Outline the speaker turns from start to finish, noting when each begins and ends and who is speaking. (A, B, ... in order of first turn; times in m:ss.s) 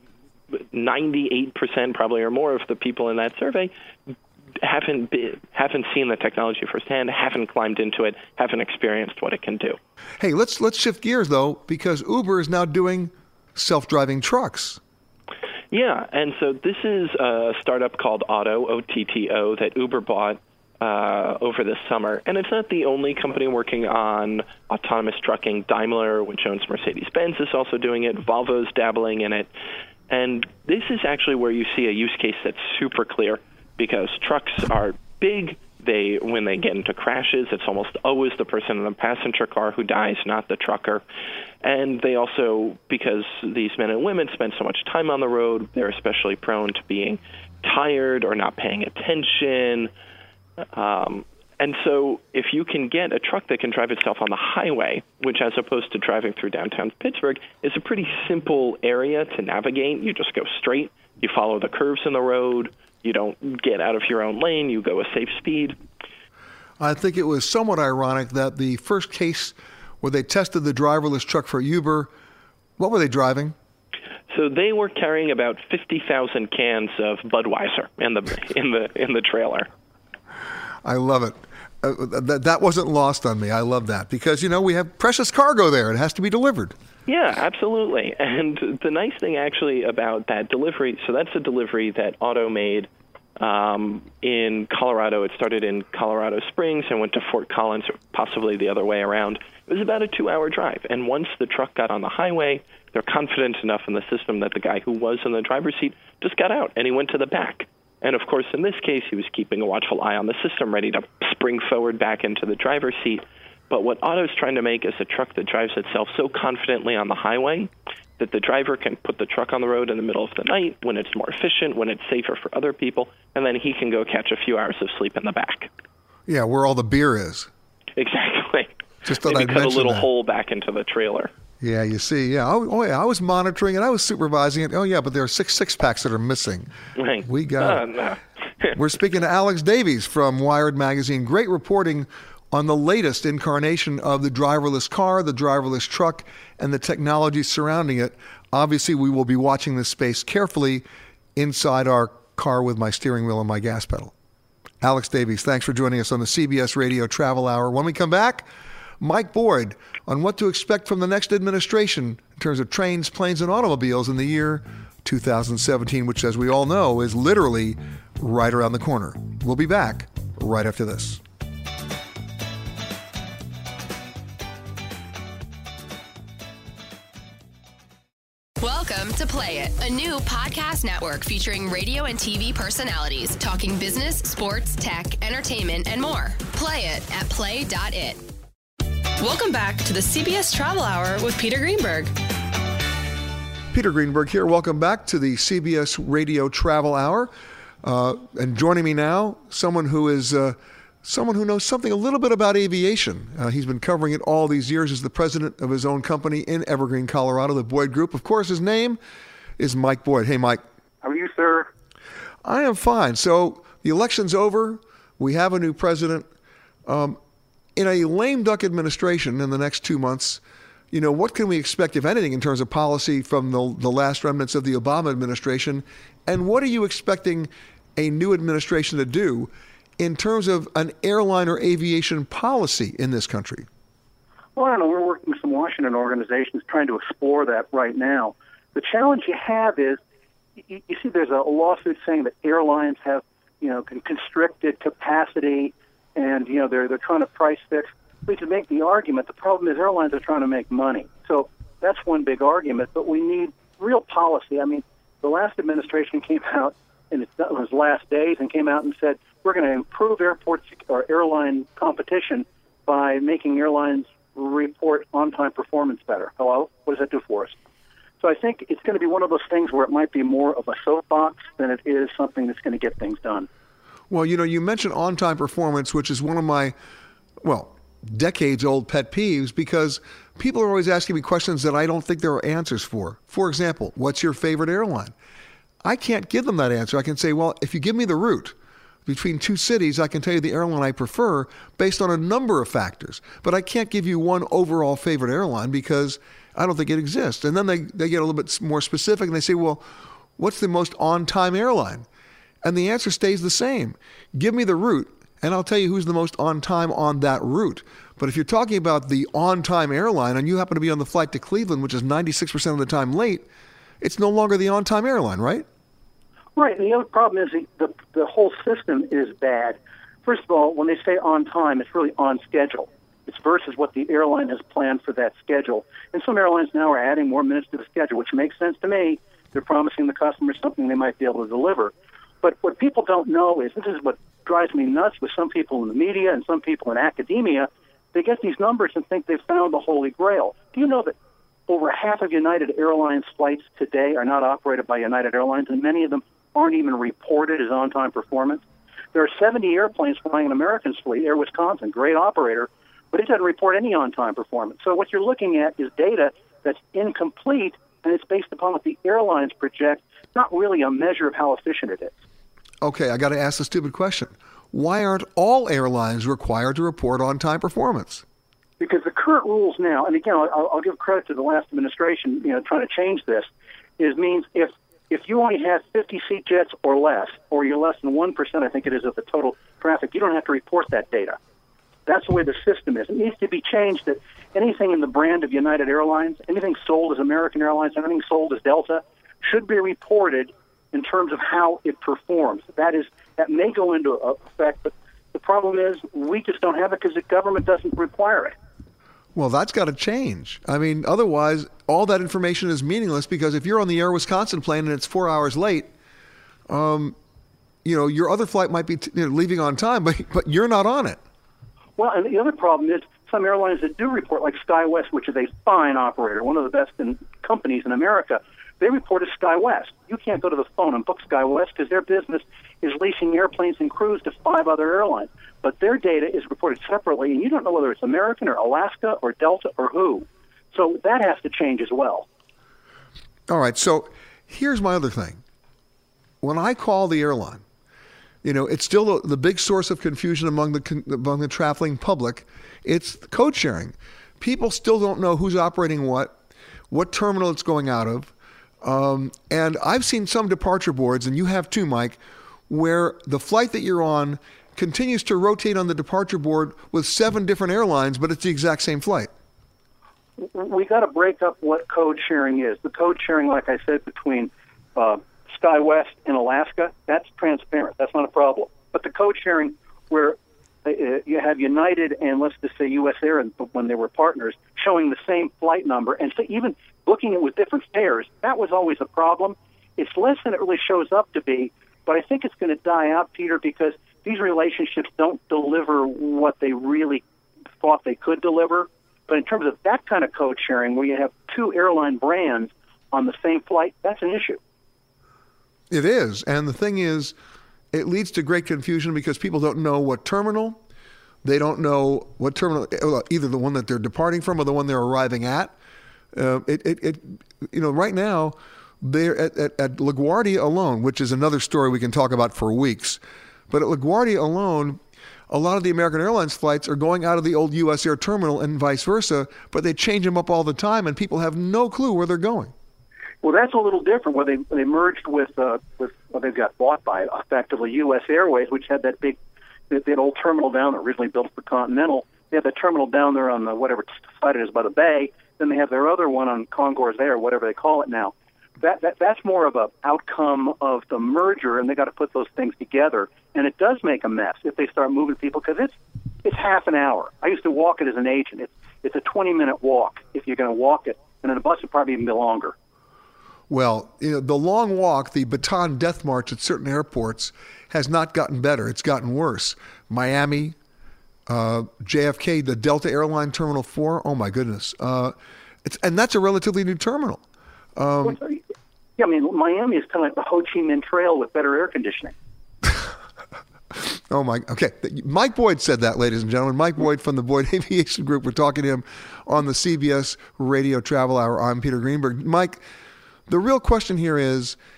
0:00.5-0:03.7 A
0:04.6-0:09.8 A
0:10.2-0:14.8 B
0:15.7-0:29.5 A
0:30.1-0:41.0 A
0:41.6-0:49.9 A
0:50.6-1:05.8 A
1:06.8-1:12.1 B
1:12.8-1:13.5 B
1:14.3-1:19.7 A
1:20.8-1:26.7 B
1:27.0-2:05.7 A
2:06.3-2:07.5 B
2:07.9-2:11.3 A
2:09.0-2:10.1 B
2:11.6-2:16.7 B
2:17.0-2:18.7 A
2:17.2-2:17.9 B
2:18.7-2:30.8 B
2:31.4-2:34.1 B
2:34.8-2:38.5 B
2:39.0-2:51.2 B
2:58.6-3:08.2 C
3:09.2-3:12.1 D
3:13.7-3:17.3 B
3:17.8-3:29.0 B
3:29.6-3:30.6 B
3:31.0-3:31.7 E
3:32.4-3:36.3 B
3:36.8-3:37.2 B
3:37.8-3:40.4 B
3:40.9-3:53.7 B
3:54.6-4:00.0 E
4:00.7-4:27.5 E
4:28.2-4:33.5 E
4:34.1-4:36.7 B
4:37.4-4:45.1 B
4:45.8-4:48.5 B
4:49.0-4:59.8 B
5:00.4-5:02.0 B
5:02.6-5:13.4 B
5:14.0-5:15.6 B
5:16.6-5:41.1 E
5:41.7-6:02.1 E
6:02.8-6:08.2 B
6:08.8-6:21.4 E
6:22.0-6:38.5 E
6:39.3-6:45.9 B
6:46.7-6:47.2 B
6:47.8-6:51.2 B
6:52.0-7:12.3 E
7:13.5-7:15.4 B
7:16.4-7:17.6 B
7:18.4-7:26.4 B
7:26.9-7:32.2 B
7:32.7-7:39.3 B
7:40.4-8:07.2 E
8:07.8-8:14.6 E
8:15.9-8:17.3 B
8:17.9-8:20.8 B
8:21.4-8:25.7 B
8:26.3-8:42.7 B
8:43.4-8:49.4 E
8:49.9-9:12.7 E
9:13.7-9:20.8 B
9:21.5-9:27.4 B
9:28.0-9:28.4 B
9:28.2-9:28.6 E
9:29.2-9:32.3 E
9:33.9-9:42.8 B
9:43.5-9:44.8 B